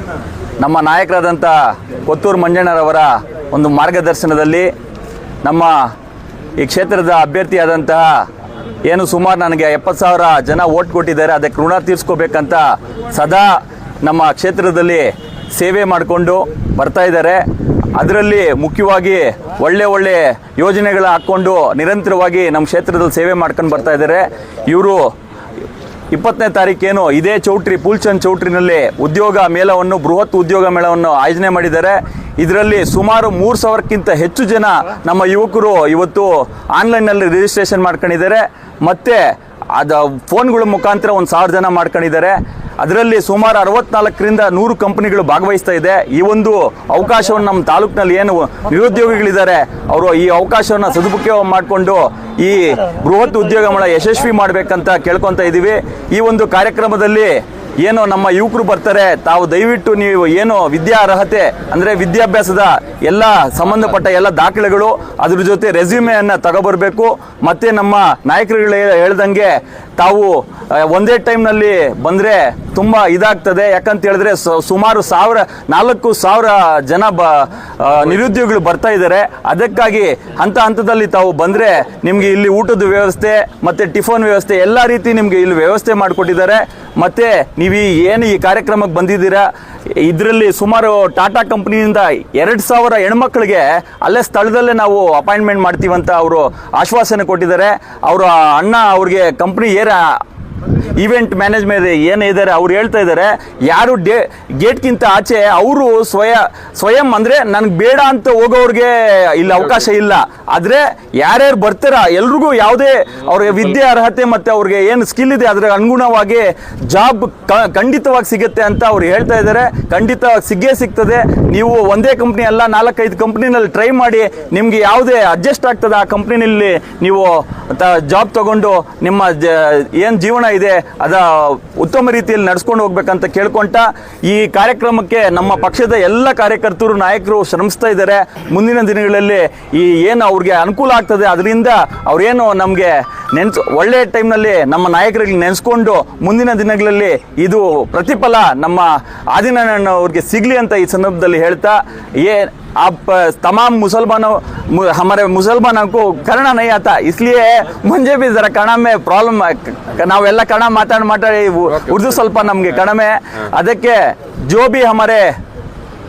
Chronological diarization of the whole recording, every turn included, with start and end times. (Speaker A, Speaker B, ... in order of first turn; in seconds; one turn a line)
Speaker A: 0.6-4.7
Speaker A: 5.4-5.9
Speaker A: 6.6-8.3
Speaker A: 8.8-25.1
Speaker A: 26.1-165.4